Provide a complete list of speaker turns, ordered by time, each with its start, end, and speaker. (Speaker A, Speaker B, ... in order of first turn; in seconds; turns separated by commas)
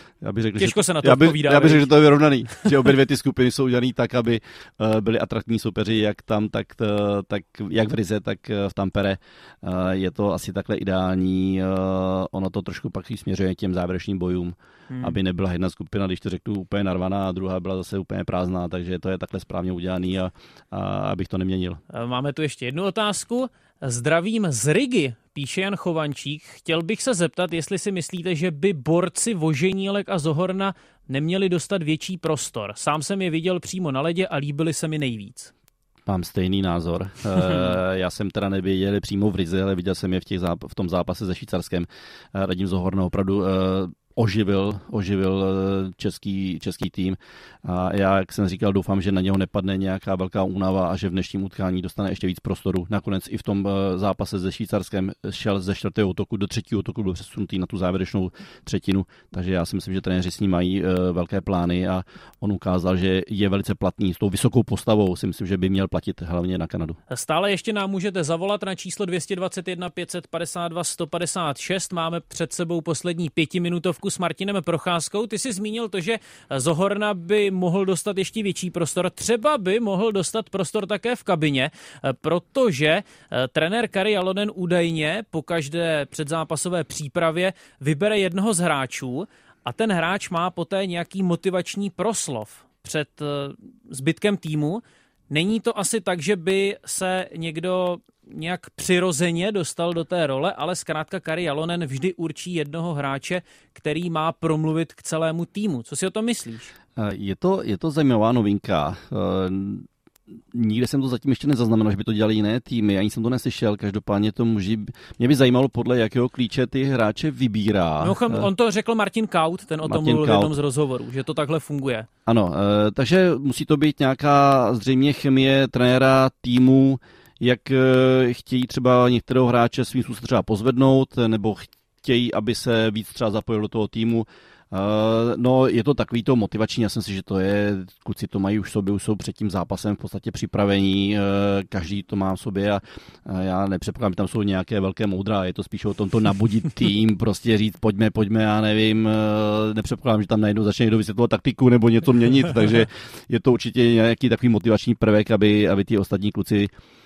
Speaker A: 0.2-21.8, Speaker B: 0.6-1.9, Speaker B: 14.9-15.2, Speaker B: 21.9-35.5, Speaker A: 36.0-67.0, Speaker B: 37.4-37.8, Speaker B: 67.1-106.7, Speaker A: 107.0-109.9, Speaker A: 110.5-118.5, Speaker B: 118.0-122.1, Speaker A: 119.8-120.5, Speaker A: 122.3-156.7